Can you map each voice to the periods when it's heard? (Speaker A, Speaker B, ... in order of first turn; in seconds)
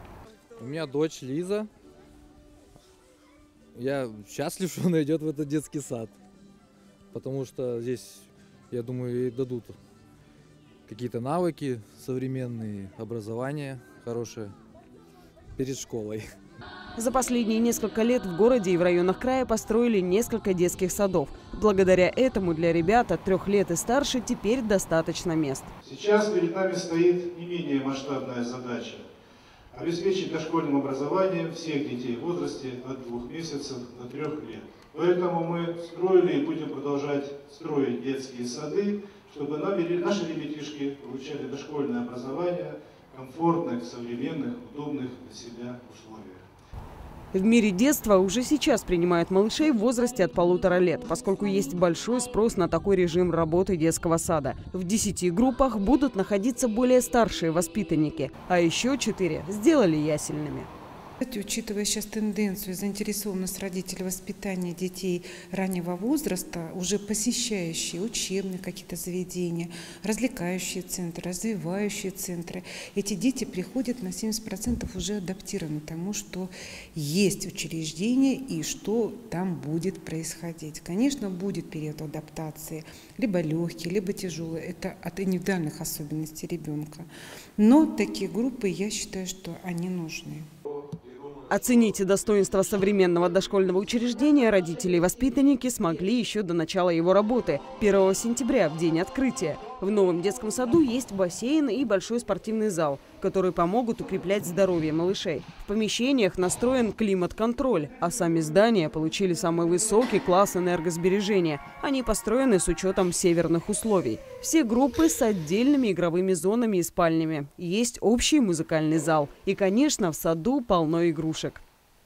Speaker A: 0.6-1.7, 3.7-6.1, 7.1-9.8, 10.9-14.5, 15.6-16.3
Speaker B: 16.9-25.7, 47.3-60.7, 91.5-121.6
Speaker C: 25.8-29.1, 29.7-46.4
Speaker D: 61.2-90.5